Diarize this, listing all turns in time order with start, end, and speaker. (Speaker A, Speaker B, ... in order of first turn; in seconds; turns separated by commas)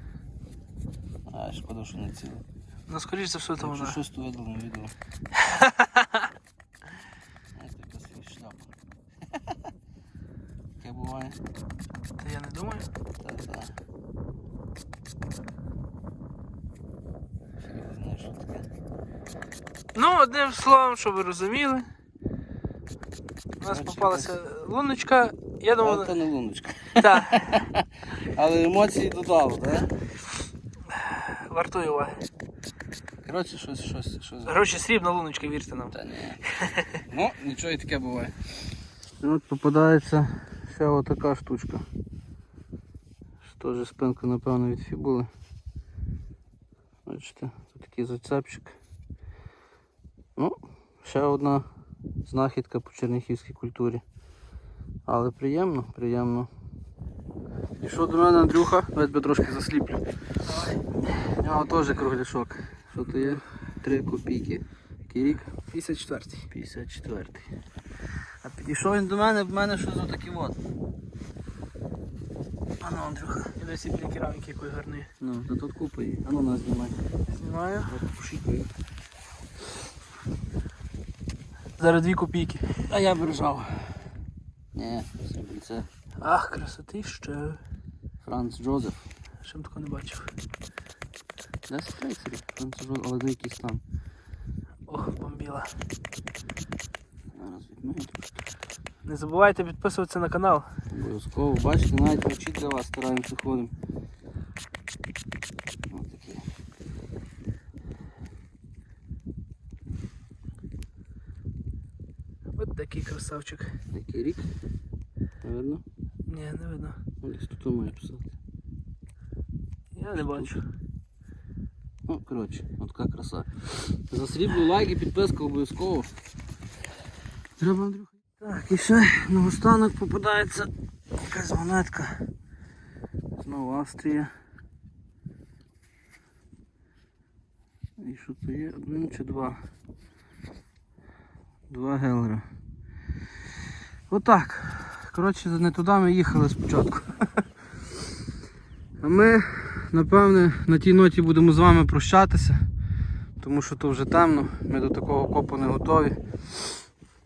Speaker A: 1.3-2.4, Speaker B: 2.9-4.0, Speaker A: 3.6-4.9, Speaker B: 5.4-6.2, Speaker A: 7.5-8.7, Speaker A: 10.8-11.4, Speaker B: 12.2-12.9, Speaker A: 13.2-13.7, Speaker A: 17.6-18.6, Speaker B: 19.9-21.9, Speaker A: 23.6-24.4, Speaker B: 23.6-26.1, Speaker A: 25.8-29.9, Speaker B: 27.0-27.6, Speaker B: 30.9-32.2, Speaker A: 33.2-34.6, Speaker B: 34.5-35.9, Speaker A: 35.9-36.4, Speaker B: 36.5-37.0, Speaker A: 37.0-38.3, Speaker A: 39.2-41.8, Speaker A: 43.4-45.3, Speaker A: 47.0-48.8, Speaker A: 50.4-51.6, Speaker A: 52.2-54.0, Speaker A: 55.1-56.5, Speaker A: 57.8-60.0, Speaker B: 60.5-60.8, Speaker A: 61.0-65.5, Speaker B: 65.6-66.5, Speaker A: 66.5-67.5, Speaker A: 68.4-70.6, Speaker A: 72.8-73.5, Speaker B: 73.6-75.1, Speaker A: 75.2-77.0, Speaker B: 77.3-77.9, Speaker A: 77.9-78.7, Speaker B: 81.8-82.7, Speaker A: 82.8-84.0, Speaker A: 84.7-85.9, Speaker B: 86.2-87.6, Speaker A: 88.2-89.0, Speaker B: 89.4-90.3, Speaker A: 91.7-93.8, Speaker B: 94.9-95.8, Speaker A: 97.3-98.2, Speaker B: 99.0-100.7, Speaker A: 100.9-103.7, Speaker A: 105.9-106.4, Speaker B: 112.5-113.8, Speaker A: 113.9-114.5, Speaker A: 115.4-115.8, Speaker B: 116.3-117.0, Speaker A: 117.2-118.3, Speaker B: 119.9-120.6, Speaker A: 120.2-120.6, Speaker A: 122.1-126.1, Speaker A: 127.6-132.2, Speaker A: 133.3-134.3, Speaker A: 138.0-139.6, Speaker A: 141.7-142.4, Speaker A: 144.1-147.1, Speaker A: 149.0-152.6, Speaker A: 153.4-156.2